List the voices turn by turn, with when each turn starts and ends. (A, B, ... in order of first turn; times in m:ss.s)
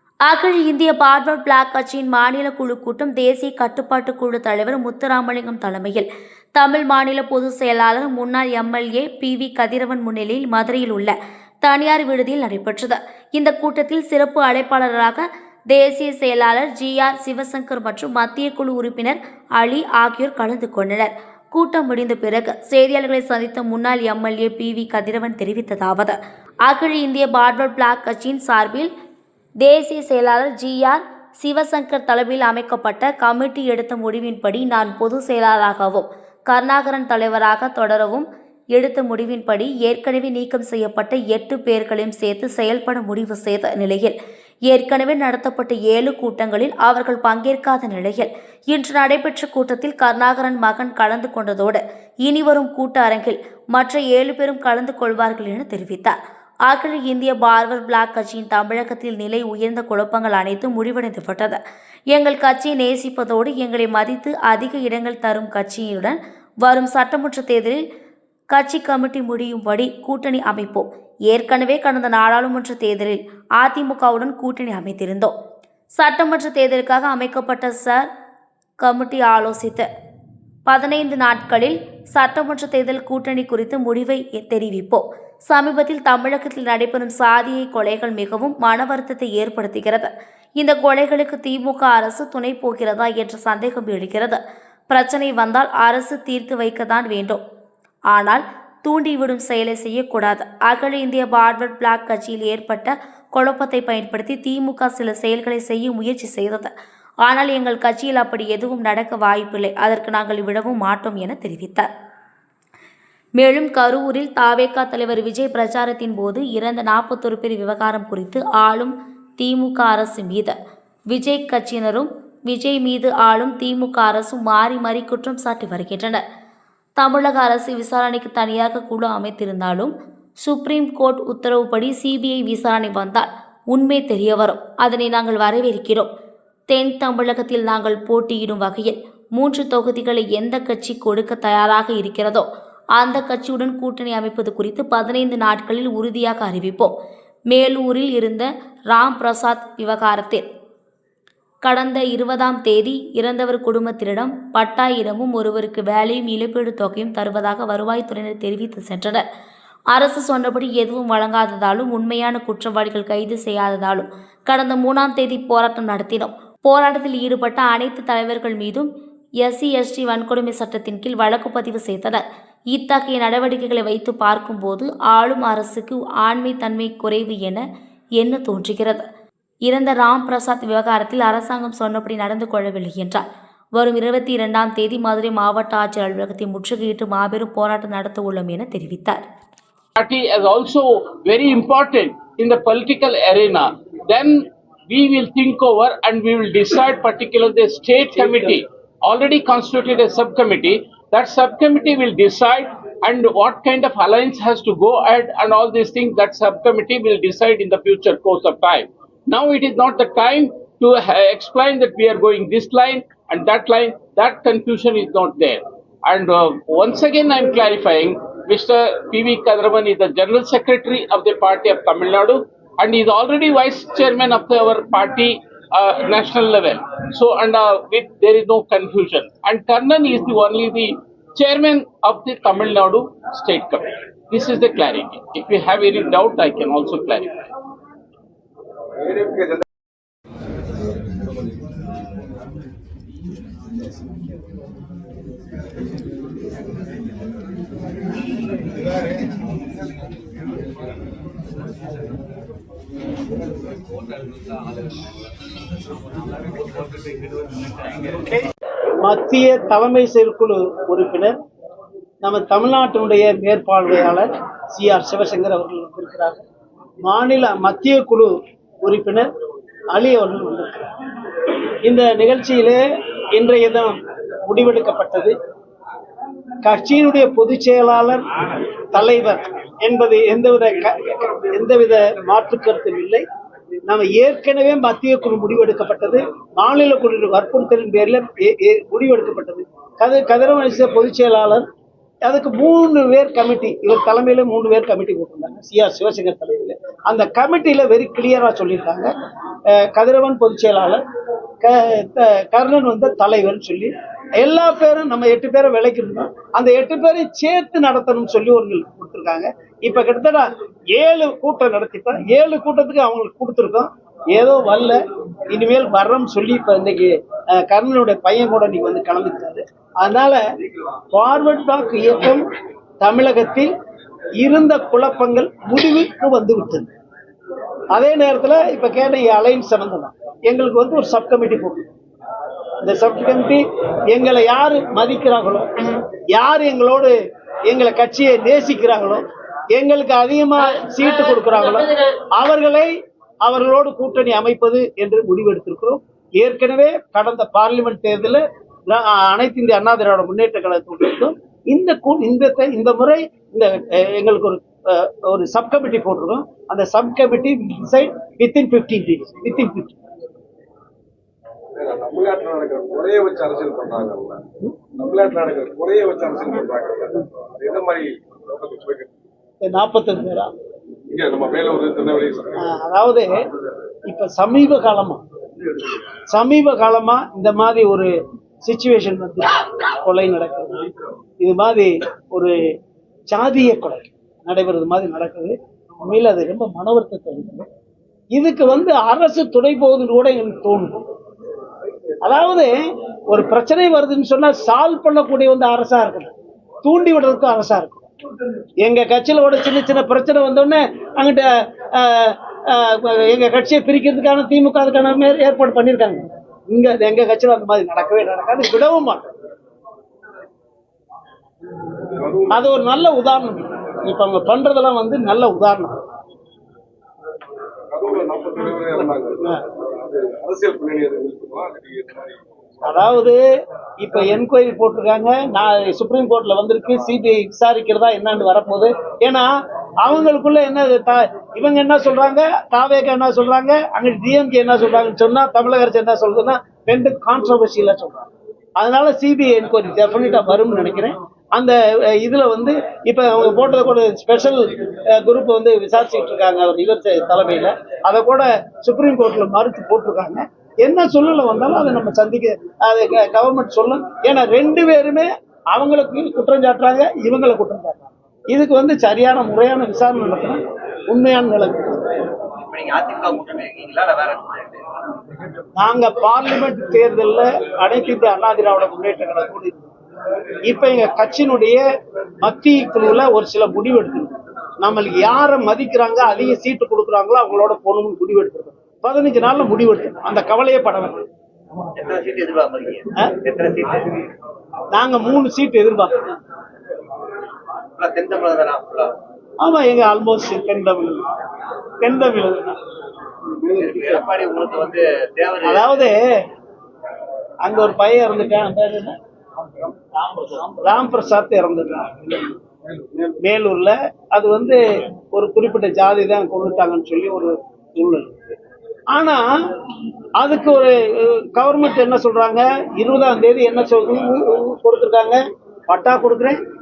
0:00.2-0:28.9 A
0:29.6-0:44.2 A
0:44.7-1:01.6 A
1:02.1-1:07.8 A
1:08.5-1:15.3 A
1:16.0-1:18.1 A
1:18.8-1:19.9 A
1:20.7-1:37.4 A
1:38.1-1:46.7 A
1:47.2-1:51.9 A
1:53.4-2:00.6 A
2:01.1-2:06.2 A
2:07.0-2:16.1 A
2:16.7-2:27.0 A
2:27.5-2:30.4 A
2:31.6-2:39.2 A
2:39.9-2:48.9 A
2:49.4-2:57.6 A
2:58.2-2:59.0 A
2:59.7-3:03.2 A
3:03.8-3:09.2 A
3:10.0-3:57.3 B
3:59.0-3:59.6 C
4:19.0-4:21.3 D
4:22.2-4:26.4 D
4:27.0-4:28.3 D
4:28.8-4:29.3 D
4:29.9-4:30.9 D
4:31.8-4:32.8 D
4:33.4-4:35.3 D
4:36.6-4:38.3 D
4:38.9-4:43.2 D
4:43.9-4:51.7 D
4:52.2-4:59.1 D
4:59.7-5:01.0 D
5:01.6-5:15.0 D
5:15.5-5:20.4 D
5:21.1-5:22.5 D
5:23.0-5:23.7 D
5:24.4-5:26.9 D
5:27.9-5:31.9 D
5:32.8-5:37.1 D
5:37.7-5:42.9 D
5:43.4-6:00.0 D
6:01.8-6:09.1 C
6:09.6-6:10.5 D
6:11.1-6:12.6 C
6:12.6-6:13.3 D
6:14.1-6:15.2 D
6:16.3-6:18.1 D
6:18.6-6:20.9 D
6:21.4-6:22.6 D
6:23.3-6:27.7 D
6:28.3-6:31.0 D
6:32.2-6:32.7 D
6:33.3-6:36.3 D
6:36.8-6:38.1 D
6:38.8-6:49.3 D
6:52.2-6:52.5 C
6:52.5-6:56.0 D
6:57.9-7:02.8 C
7:02.8-7:03.4 D
7:04.0-7:09.5 D
7:10.0-7:42.0 D
7:42.6-7:44.8 E
7:45.8-7:49.8 D
7:50.7-7:51.8 D
7:52.4-8:01.2 D
8:02.0-8:04.1 E
8:04.9-8:06.1 D
8:08.0-8:09.2 E
8:09.6-8:11.2 D
8:12.0-8:12.8 D
8:13.8-8:15.8 E
8:15.6-8:16.4 D
8:17.6-8:19.2 D
8:20.5-8:22.1 D
8:23.4-8:24.8 D
8:25.3-8:28.3 D
8:29.1-8:29.5 D
8:30.4-8:36.6 D